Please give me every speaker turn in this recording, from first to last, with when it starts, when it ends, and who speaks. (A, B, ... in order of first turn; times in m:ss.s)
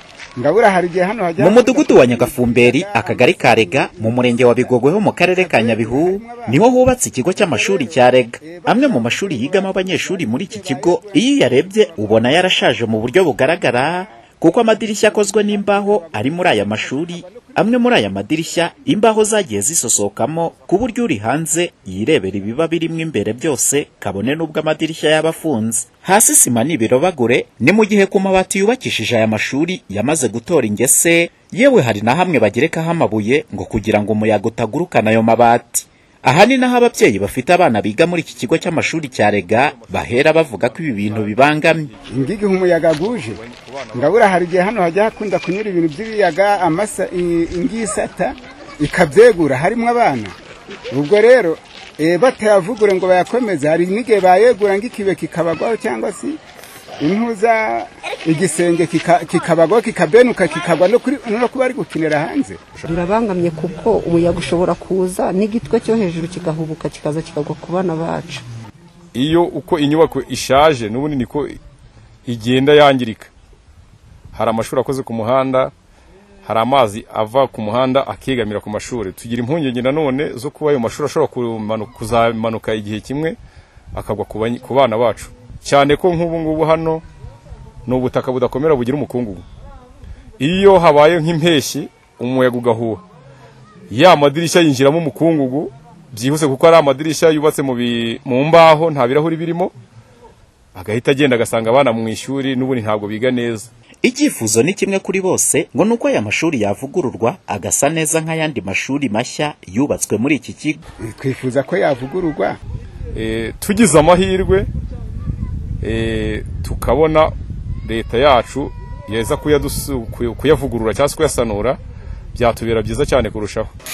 0:00.4-0:06.6 A
0:01.4-0:41.9 B
0:07.4-0:12.1 A
0:13.6-0:14.1 A
0:15.0-0:17.6 A
0:39.1-0:42.2 C
0:42.1-0:43.4 A
0:42.8-0:44.1 C
0:43.9-0:50.4 A
0:50.9-0:56.4 A
0:57.0-1:02.6 A
1:02.8-1:08.4 D
1:09.1-1:11.6 C
1:12.3-1:13.3 C
1:14.3-1:15.7 C
1:16.4-1:23.4 C
1:23.9-1:27.0 C
1:27.9-1:29.4 C
1:30.4-1:33.0 C
1:33.9-1:39.7 C
1:40.8-1:43.7 C
1:44.0-1:50.8 B
1:51.0-1:52.6 A
1:53.1-1:54.7 C
1:55.8-1:57.3 C
1:57.8-2:01.8 C
2:02.4-2:03.7 C